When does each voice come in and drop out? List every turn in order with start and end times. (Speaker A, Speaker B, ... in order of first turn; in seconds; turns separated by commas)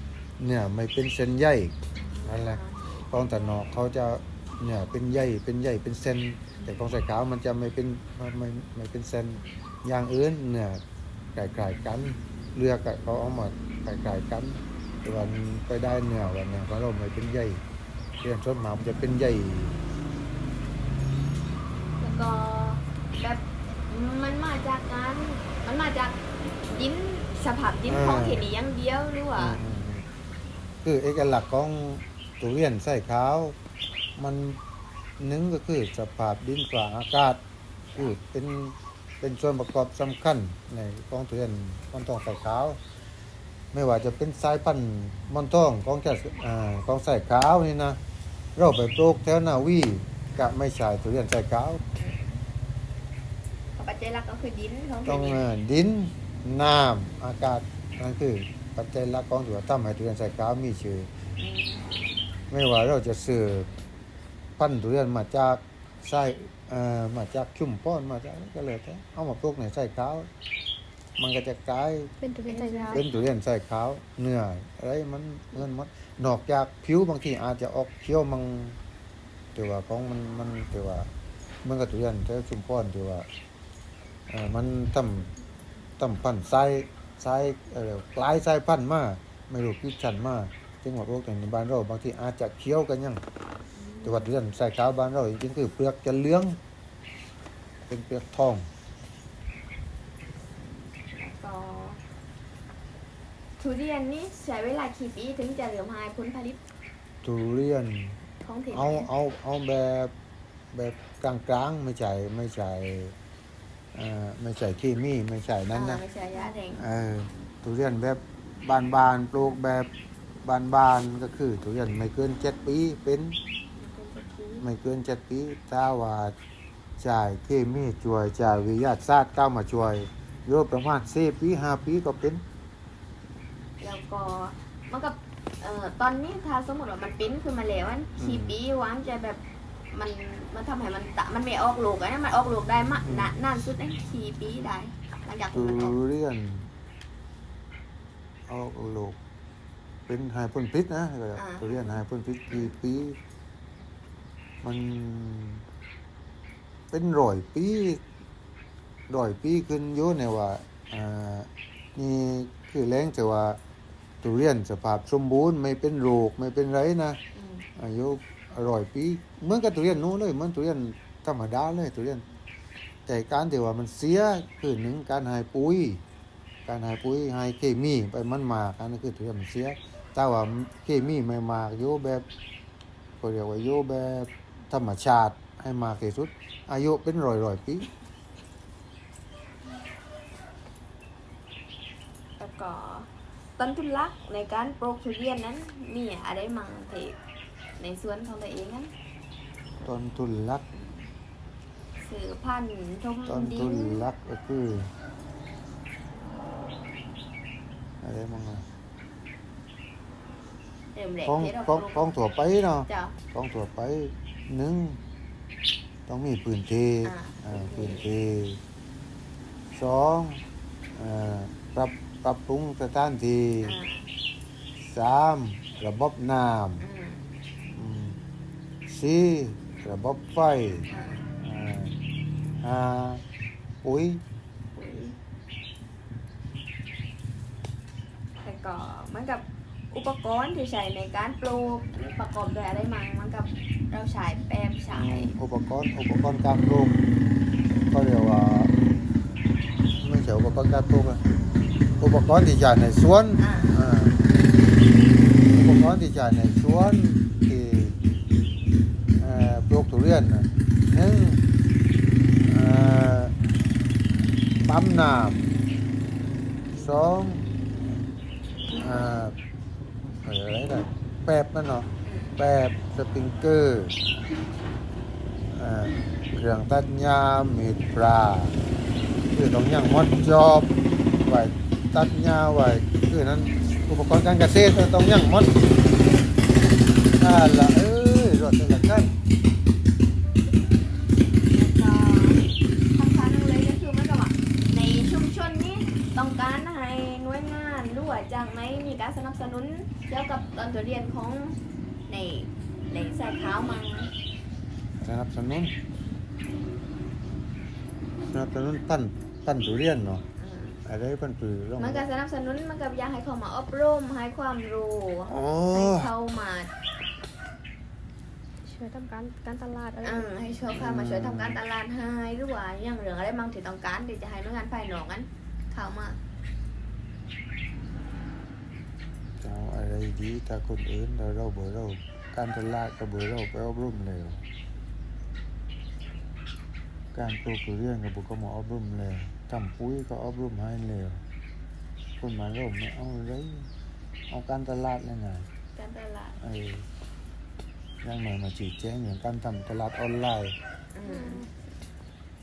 Speaker A: 0.4-10.8, Speaker B: 2.0-3.0, Speaker B: 6.5-6.8, Speaker A: 11.3-17.6, Speaker A: 18.2-19.8, Speaker B: 22.0-29.6, Speaker A: 27.9-28.5, Speaker A: 29.4-30.0, Speaker A: 30.8-33.5, Speaker A: 34.2-34.6, Speaker A: 35.2-37.4, Speaker A: 37.9-42.8, Speaker A: 43.7-48.0, Speaker A: 48.5-51.8, Speaker B: 52.0-52.4, Speaker B: 53.8-55.4, Speaker A: 55.0-61.1, Speaker B: 61.4-62.1, Speaker A: 62.5-63.7, Speaker A: 64.6-70.3, Speaker A: 71.2-72.1, Speaker C: 72.2-73.0, Speaker B: 72.5-73.0, Speaker A: 72.9-78.8, Speaker A: 79.5-81.1, Speaker A: 81.6-83.2, Speaker A: 84.3-85.3, Speaker A: 86.0-93.2, Speaker B: 93.7-94.3, Speaker A: 94.0-96.6, Speaker A: 97.9-98.7, Speaker B: 101.1-102.0, Speaker B: 103.6-106.6, Speaker A: 107.2-110.1, Speaker B: 108.4-109.1, Speaker A: 110.7-113.1, Speaker A: 113.9-116.0, Speaker B: 115.7-116.8, Speaker A: 116.7-119.9, Speaker A: 120.4-123.4, Speaker B: 123.8-124.7, Speaker A: 124.6-126.3, Speaker A: 127.0-132.4, Speaker B: 133.8-139.4, Speaker A: 138.2-138.5, Speaker B: 139.9-145.9, Speaker A: 143.0-143.3, Speaker A: 145.5-146.7, Speaker A: 148.5-149.2, Speaker A: 150.1-153.2, Speaker B: 151.3-152.0, Speaker A: 154.6-155.6, Speaker A: 156.9-158.0, Speaker A: 159.1-163.6, Speaker A: 164.2-167.2, Speaker B: 167.3-167.6, Speaker A: 167.8-172.2, Speaker A: 173.1-176.0, Speaker A: 176.7-182.2, Speaker A: 183.2-187.9, Speaker B: 192.4-197.2, Speaker B: 197.8-198.9, Speaker A: 199.8-200.6, Speaker B: 200.7-201.1, Speaker B: 202.0-204.0, Speaker A: 203.3-204.9, Speaker A: 208.0-208.6, Speaker B: 210.9-212.1, Speaker A: 211.2-215.0, Speaker B: 212.9-213.1, Speaker A: 216.1-218.6, Speaker B: 217.0-218.1, Speaker A: 219.7-220.4, Speaker A: 220.9-223.7, Speaker B: 223.6-224.1, Speaker A: 224.8-226.8, Speaker B: 226.8-227.2, Speaker A: 227.7-228.2, Speaker A: 228.9-230.8, Speaker B: 230.9-231.3, Speaker A: 231.4-231.9, Speaker A: 232.6-233.2, Speaker A: 233.8-234.2, Speaker B: 234.7-235.2, Speaker B: 238.4-245.3, Speaker A: 244.9-247.0, Speaker A: 247.9-248.7, Speaker A: 250.0-251.2, Speaker A: 252.0-254.2, Speaker B: 253.4-253.7, Speaker A: 255.5-257.9, Speaker A: 259.1-261.4, Speaker A: 262.4-263.3, Speaker A: 264.6-265.4, Speaker A: 266.7-267.5, Speaker A: 268.7-269.3, Speaker A: 270.2-273.9, Speaker B: 272.1-272.3, Speaker A: 275.5-278.6, Speaker A: 279.3-285.6, Speaker A: 287.2-289.1, Speaker B: 291.5-304.1, Speaker A: 305.0-305.7, Speaker A: 308.3-310.2, Speaker B: 310.4-310.8, Speaker A: 310.8-312.1, Speaker B: 311.8-316.7, Speaker A: 315.3-316.1, Speaker C: 318.6-320.4, Speaker B: 320.0-326.2, Speaker A: 320.7-321.6, Speaker A: 329.4-334.4, Speaker A: 337.1-341.2, Speaker A: 342.2-343.7, Speaker A: 344.3-345.5, Speaker B: 345.7-346.4, Speaker A: 346.4-346.9, Speaker A: 348.0-350.6, Speaker B: 350.9-351.5, Speaker C: 351.1-351.5